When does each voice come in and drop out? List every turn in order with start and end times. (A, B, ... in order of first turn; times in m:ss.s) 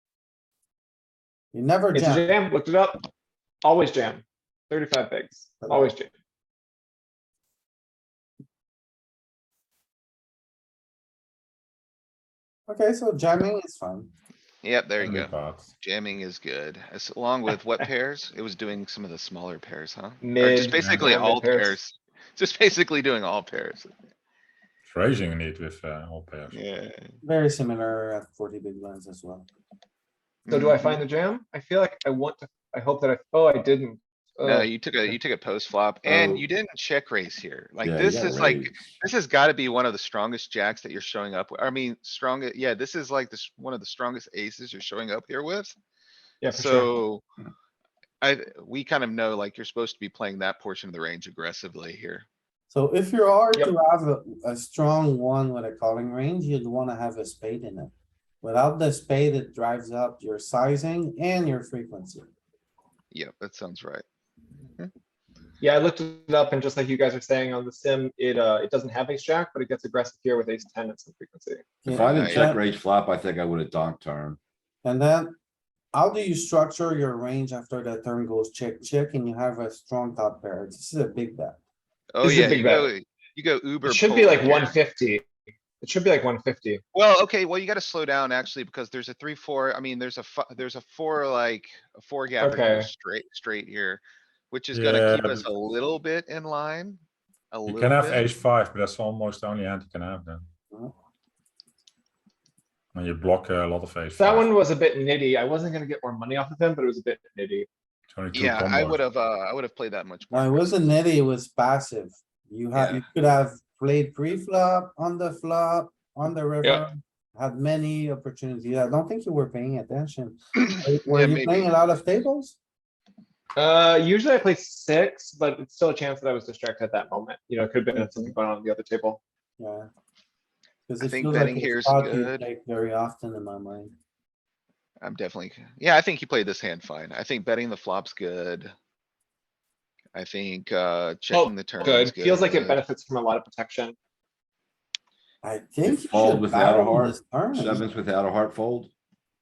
0:01.5-0:02.2 A
0:01.9-0:03.1 B
0:03.6-0:06.1 B
0:05.6-0:05.9 A
0:12.7-0:14.1 A
0:14.6-0:23.9 C
0:15.0-0:15.7 D
0:20.2-0:21.8 B
0:24.9-0:26.6 D
0:26.5-0:27.1 C
0:27.2-0:29.5 A
0:30.4-0:31.0 C
0:30.5-0:34.7 B
0:34.4-0:45.8 C
0:36.0-0:36.4 E
0:37.8-0:38.8 E
0:46.4-0:46.9 B
0:46.5-0:47.2 C
0:48.2-0:52.2 C
0:52.7-1:02.3 A
1:03.1-1:04.0 C
1:05.6-1:11.6 B
1:11.8-1:12.6 A
1:11.9-1:14.4 E
1:11.9-1:12.6 C
1:14.8-1:15.3 A
1:15.9-1:21.6 A
1:22.1-1:24.8 C
1:22.2-1:22.9 B
1:23.8-1:25.3 B
1:25.8-1:26.8 B
1:26.9-1:37.0 C
1:32.4-1:32.9 B
1:34.7-1:35.4 D
1:37.5-1:38.2 C
1:37.7-1:40.4 D
1:42.9-1:44.5 D
1:44.2-1:47.7 B
1:48.1-1:49.0 D
1:48.3-1:50.8 C
1:50.3-2:02.6 A
1:52.7-1:53.0 C
2:01.1-2:01.7 C
2:03.5-2:09.2 B
2:07.9-2:08.4 A
2:09.6-2:09.9 A
2:10.9-2:13.9 A
2:11.0-2:12.4 C
2:15.0-2:18.7 C
2:20.1-2:22.8 C
2:21.3-2:24.0 B
2:25.4-2:27.9 A
2:25.8-2:28.9 E